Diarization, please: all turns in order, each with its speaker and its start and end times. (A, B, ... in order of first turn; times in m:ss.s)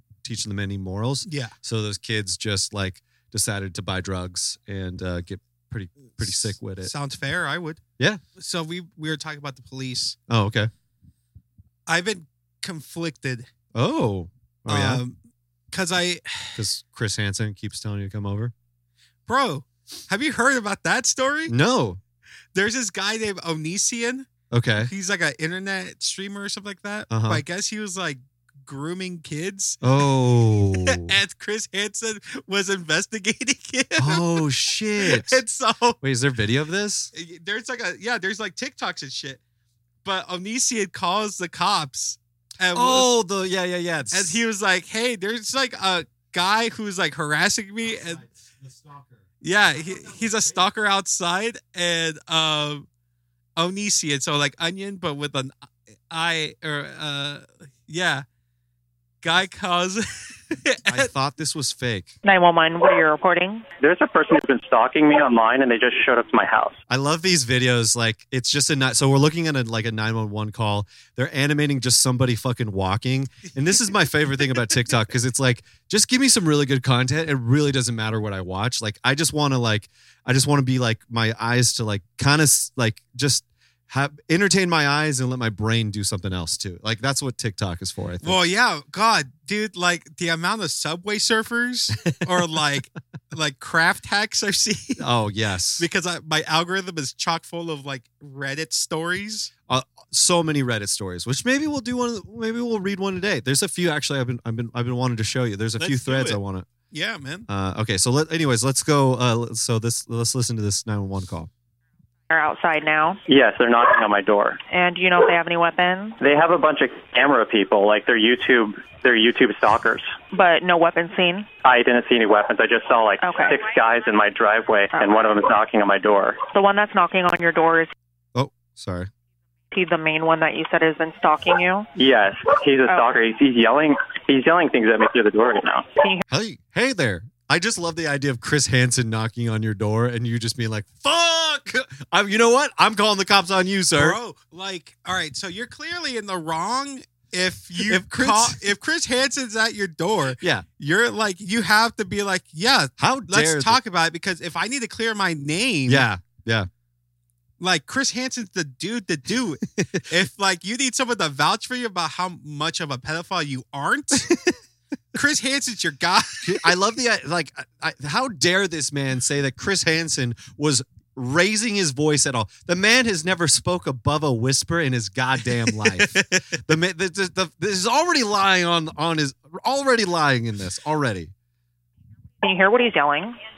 0:00.2-0:06.9 A
0:01.3-0:01.5 B
0:06.1-0:07.8 B
0:08.4-0:10.2 B
0:10.3-0:10.7 A
0:11.9-0:13.5 B
0:13.8-0:15.0 A
0:14.7-0:15.2 B
0:15.7-0:16.6 B
0:16.6-0:18.5 A
0:19.3-0:21.5 B
0:21.5-0:22.0 A
0:22.6-0:24.3 B
0:24.5-0:24.9 A
0:24.8-0:29.8 B
0:27.1-0:27.4 A
0:29.8-0:31.1 A
0:30.7-0:34.4 B
0:34.0-0:35.4 A
0:35.0-0:36.0 B
0:36.0-0:37.1 A
0:37.1-0:39.4 B
0:40.0-0:43.1 B
0:42.7-0:44.4 A
0:44.1-0:48.2 B
0:47.8-0:50.6 A
0:49.4-0:52.9 B
0:53.6-0:55.5 B
0:56.1-0:58.2 B
0:59.2-1:01.1 B
1:00.9-1:02.2 A
1:02.2-1:03.7 C
1:03.8-1:06.8 D
1:06.9-1:28.4 A
1:13.4-1:14.0 B
1:28.2-1:35.0 B
1:35.0-1:35.9 A
1:35.8-1:39.5 B
1:39.7-1:46.7 A
1:45.8-1:46.4 B
1:46.9-1:47.5 B
1:47.5-1:51.5 A
1:52.3-1:53.2 C
1:53.3-1:54.6 D
1:54.7-1:56.2 C
1:56.2-2:00.1 D
2:00.3-2:01.5 C
2:01.6-2:06.4 D
2:03.2-2:03.6 C
2:06.5-2:07.9 C
2:08.3-2:09.1 A
2:09.7-2:11.9 C
2:12.0-2:15.9 D
2:16.3-2:24.2 A
2:24.0-2:36.1 B
2:27.8-2:28.6 A
2:30.4-2:30.7 A
2:33.0-2:33.8 A
2:35.9-2:36.7 A
2:37.6-2:44.5 B
2:39.8-2:40.0 A
2:45.1-2:46.8 B
2:46.4-3:01.3 A
2:55.6-2:56.6 B
3:02.4-3:03.4 C